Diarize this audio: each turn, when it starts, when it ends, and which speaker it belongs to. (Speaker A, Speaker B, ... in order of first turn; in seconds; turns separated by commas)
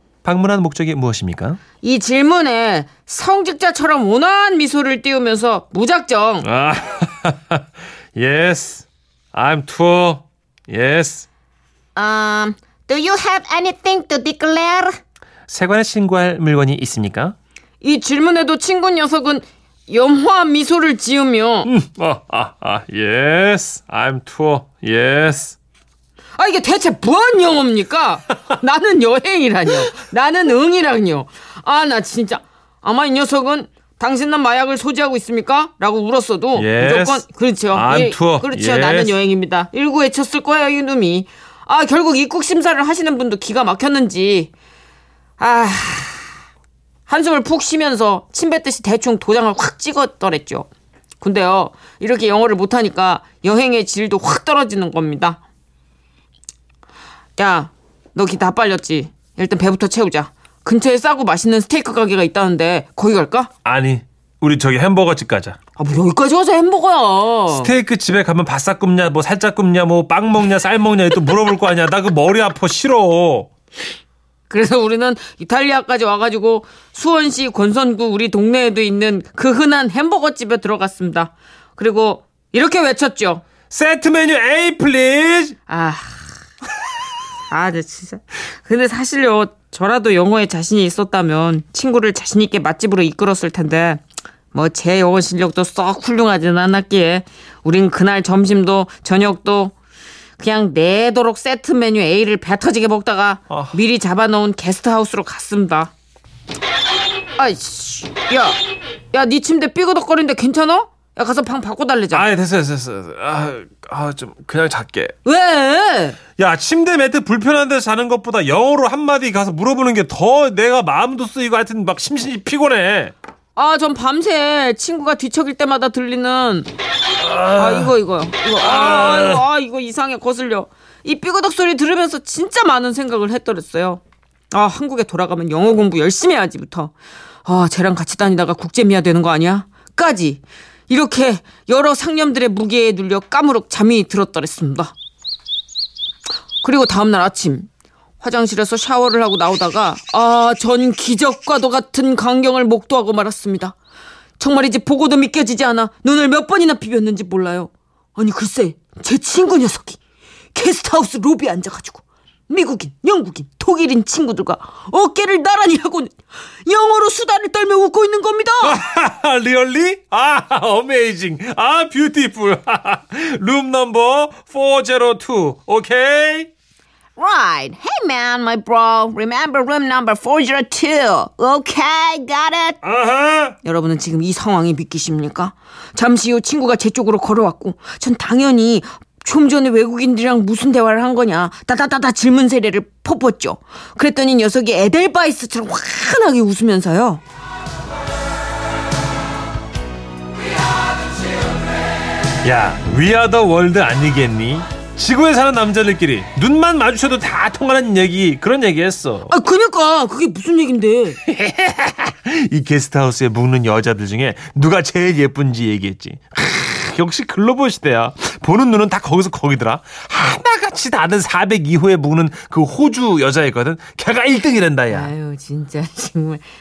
Speaker A: 0.2-1.6, Speaker B: 1.8-6.5, Speaker A: 6.4-7.6, Speaker A: 8.1-11.2, Speaker B: 11.9-14.9, Speaker A: 15.5-17.3, Speaker B: 17.8-21.7, Speaker A: 21.6-25.6, Speaker B: 26.4-44.5, Speaker A: 36.5-39.1, Speaker B: 45.4-46.3, Speaker B: 47.1-50.6, Speaker B: 51.2-55.4, Speaker B: 57.4-63.5, Speaker A: 63.6-65.6, Speaker B: 65.8-67.7, Speaker A: 67.5-73.5, Speaker B: 74.5-83.4, Speaker A: 83.7-85.5, Speaker B: 85.7-86.2, Speaker B: 87.5-94.0, Speaker B: 94.5-99.7, Speaker B: 100.4-105.9, Speaker A: 103.5-103.8, Speaker B: 107.4-108.5, Speaker B: 109.1-112.2, Speaker A: 112.1-115.1, Speaker B: 115.2-116.2, Speaker A: 116.4-123.1, Speaker B: 123.6-126.7, Speaker A: 127.2-128.0, Speaker B: 127.6-134.0, Speaker A: 128.5-129.4, Speaker B: 134.5-136.9, Speaker B: 137.4-144.9, Speaker B: 146.6-147.7, Speaker B: 148.2-153.7, Speaker B: 154.4-160.0, Speaker B: 160.5-166.1, Speaker B: 166.6-168.8, Speaker A: 168.6-176.5, Speaker B: 177.2-182.8, Speaker A: 182.8-183.6, Speaker B: 183.6-197.2, Speaker A: 202.4-209.3, Speaker B: 209.3-211.2, Speaker A: 211.2-225.1, Speaker B: 224.9-226.4